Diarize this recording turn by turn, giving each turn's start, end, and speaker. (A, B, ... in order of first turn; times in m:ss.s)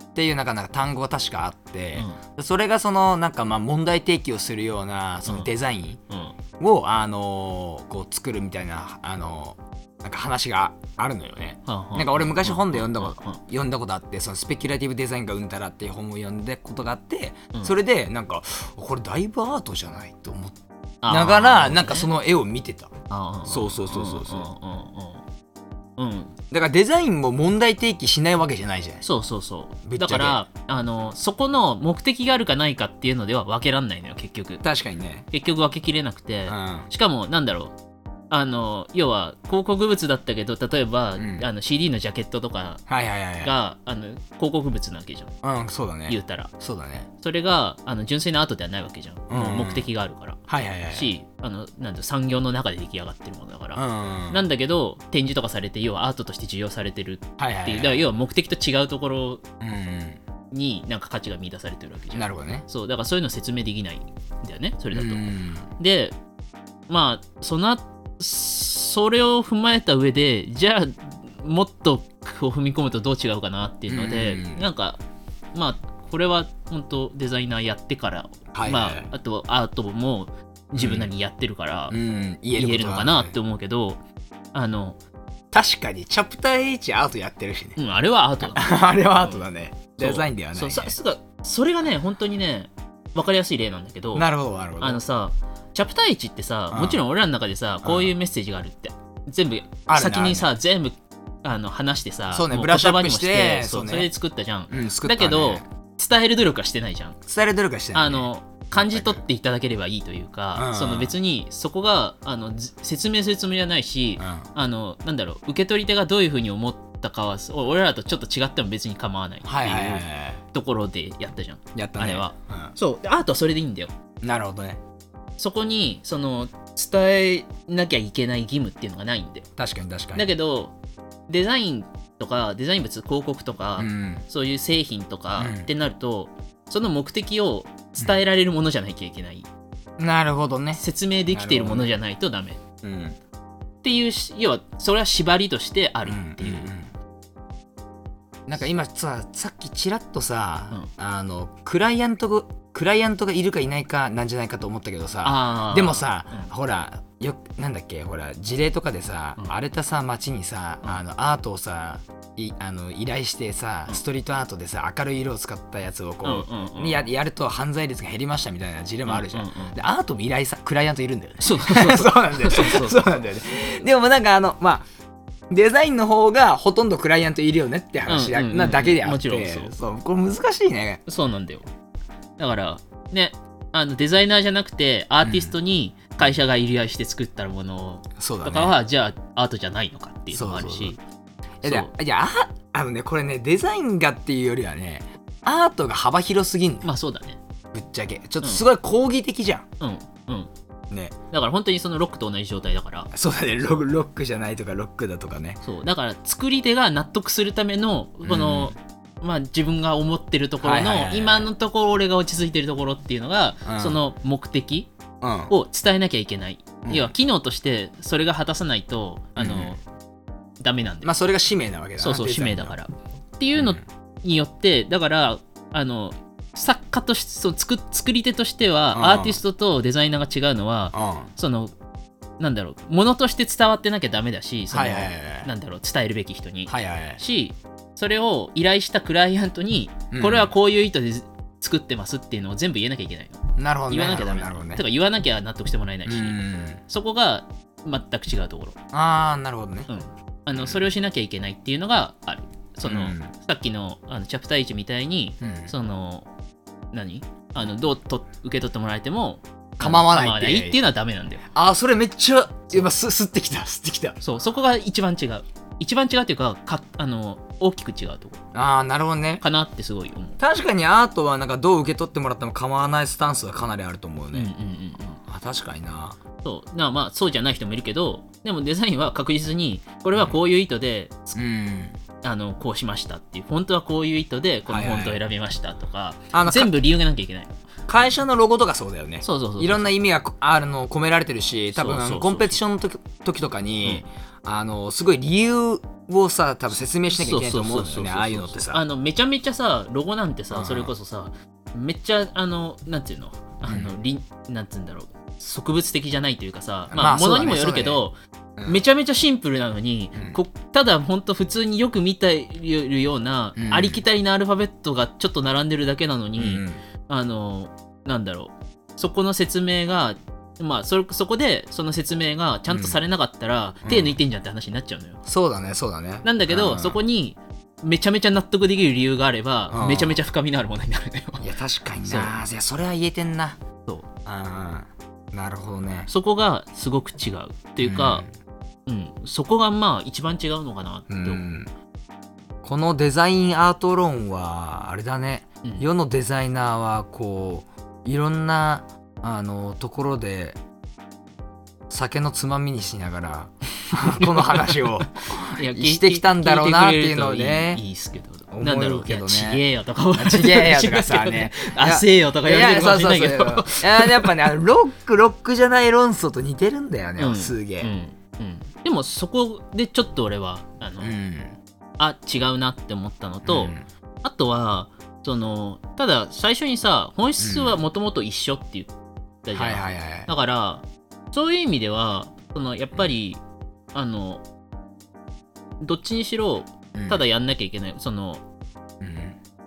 0:00.2-0:06.0 A
0:02.0-0:02.2 B
0:06.1-0:06.4 B
0:06.6-0:22.9 A
0:11.7-0:13.4 B
0:21.0-0:22.1 B
0:23.1-0:25.2 B
0:23.5-0:24.5 A
0:26.0-0:26.4 B
0:26.5-0:29.0 A
0:29.0-0:34.6 B
0:29.9-0:30.4 A
0:34.6-0:35.3 A
0:35.3-0:37.8 B
0:36.5-0:36.9 A
0:38.3-0:42.8 B
0:41.2-0:41.5 A
0:42.9-0:43.5 A
0:43.4-0:45.4 B
0:45.4-0:47.1 A
0:46.1-0:46.5 B
0:47.2-0:59.4 B
0:49.3-0:49.9 A
0:50.5-0:51.1 A
0:53.8-0:54.4 A
0:57.4-0:58.1 A
0:59.6-1:00.2 A
1:00.5-1:05.2 B
1:02.1-1:02.7 A
1:04.9-1:05.7 A
1:05.8-1:06.2 B
1:06.9-1:15.0 B
1:13.9-1:14.6 A
1:15.5-1:22.0 B
1:18.5-1:19.1 A
1:20.8-1:21.1 A
1:21.9-1:23.4 A
1:22.6-1:24.0 B
1:24.5-1:25.0 B
1:25.5-1:27.8 A
1:27.8-1:28.7 B
1:28.4-1:31.0 A
1:30.0-1:34.3 B
1:34.1-1:35.0 A
1:34.8-1:47.2 B
1:36.7-1:37.0 A
1:37.8-1:38.1 A
1:39.9-1:40.5 A
1:42.3-1:44.1 A
1:44.7-1:45.7 A
1:47.3-1:49.2 A
1:47.9-2:03.9 B
1:50.6-1:51.1 A
1:54.2-1:54.4 A
1:59.4-2:00.4 A
2:01.8-2:02.7 A
2:04.2-2:04.8 A
2:05.4-2:09.5 B
2:09.6-2:10.3 A
2:10.2-2:10.7 B
2:11.3-2:19.5 B
2:13.8-2:14.2 A
2:15.4-2:15.7 A
2:20.0-2:21.9 A
2:20.8-2:22.6 B
2:22.8-2:23.2 A
2:23.8-2:26.7 B
2:26.0-2:26.9 A
2:28.5-2:54.9 A
2:35.2-2:36.5 B
2:46.2-2:47.0 B
2:49.1-2:49.8 B
2:51.4-2:53.2 B
2:55.5-3:01.0 A
2:58.1-2:59.8 B
3:01.1-3:01.7 B
3:02.4-3:11.0 B
3:05.2-3:05.5 A
3:08.2-3:08.8 A
3:10.3-3:11.0 A
3:11.6-3:16.9 A
3:11.6-3:11.9 B
3:16.8-3:17.4 B
3:17.7-3:19.7 A
3:19.8-3:20.5 B
3:20.9-3:21.2 A
3:21.3-3:23.1 B
3:23.1-3:25.6 A
3:25.6-3:34.9 B
3:28.3-3:28.8 A
3:30.6-3:31.5 A
3:33.7-3:34.0 A
3:35.2-3:35.5 A
3:35.5-3:39.8 B
3:36.8-3:37.1 A
3:39.4-3:39.8 A
3:40.6-3:41.1 B
3:41.0-3:42.8 A
3:42.0-3:51.7 B
3:43.6-3:43.8 A
3:48.9-3:49.4 A
3:50.9-3:51.3 A
3:52.4-4:08.8 B
3:54.7-3:55.5 A
3:56.7-3:57.2 A
4:00.1-4:00.5 A
4:03.6-4:04.8 A
4:06.1-4:06.8 A
4:08.9-4:09.9 A
4:09.9-4:16.3 B
4:10.5-4:10.8 A
4:12.8-4:13.3 A
4:15.4-4:15.7 A
4:16.9-4:21.5 B
4:19.8-4:20.8 A
4:21.5-4:24.2 A
4:24.2-4:28.4 B
4:28.5-4:29.4 A
4:29.4-4:30.4 B
4:30.4-4:34.5 A
4:34.3-4:35.2 B
4:35.2-4:36.2 A
4:36.4-4:41.4 B
4:41.4-4:42.0 A
4:42.2-4:47.6 B
4:44.7-4:45.2 A
4:46.3-4:46.7 A
4:47.9-4:58.8 A
4:49.2-4:49.9 B
4:51.7-4:52.6 B
4:57.1-5:25.2 B
5:00.5-5:00.9 A
5:03.7-5:03.9 A
5:06.9-5:08.0 A
5:08.6-5:08.8 A
5:13.6-5:14.0 A
5:16.4-5:16.8 A
5:22.7-5:23.0 A
5:23.8-5:24.2 A
5:25.3-5:27.0 A
5:26.2-5:31.5 B
5:29.7-5:30.2 A
5:31.4-5:33.6 A
5:32.1-5:32.4 B
5:34.2-5:36.1 A
5:36.1-5:38.2 B
5:37.8-5:38.3 A
5:38.9-5:41.4 B
5:41.1-5:41.7 A
5:42.6-5:50.6 A
5:51.9-5:57.8 A
5:54.1-6:04.3 B
5:58.5-5:59.6 A
6:00.2-6:07.9 A
6:07.2-6:11.2 B
6:11.0-6:11.6 A
6:12.0-6:18.9 B
6:13.4-6:13.8 A
6:17.4-6:17.8 A
6:19.4-6:23.4 B
6:19.5-6:20.3 A
6:23.9-6:24.4 B
6:25.8-6:28.4 B
6:27.0-6:27.2 A
6:29.0-6:29.4 A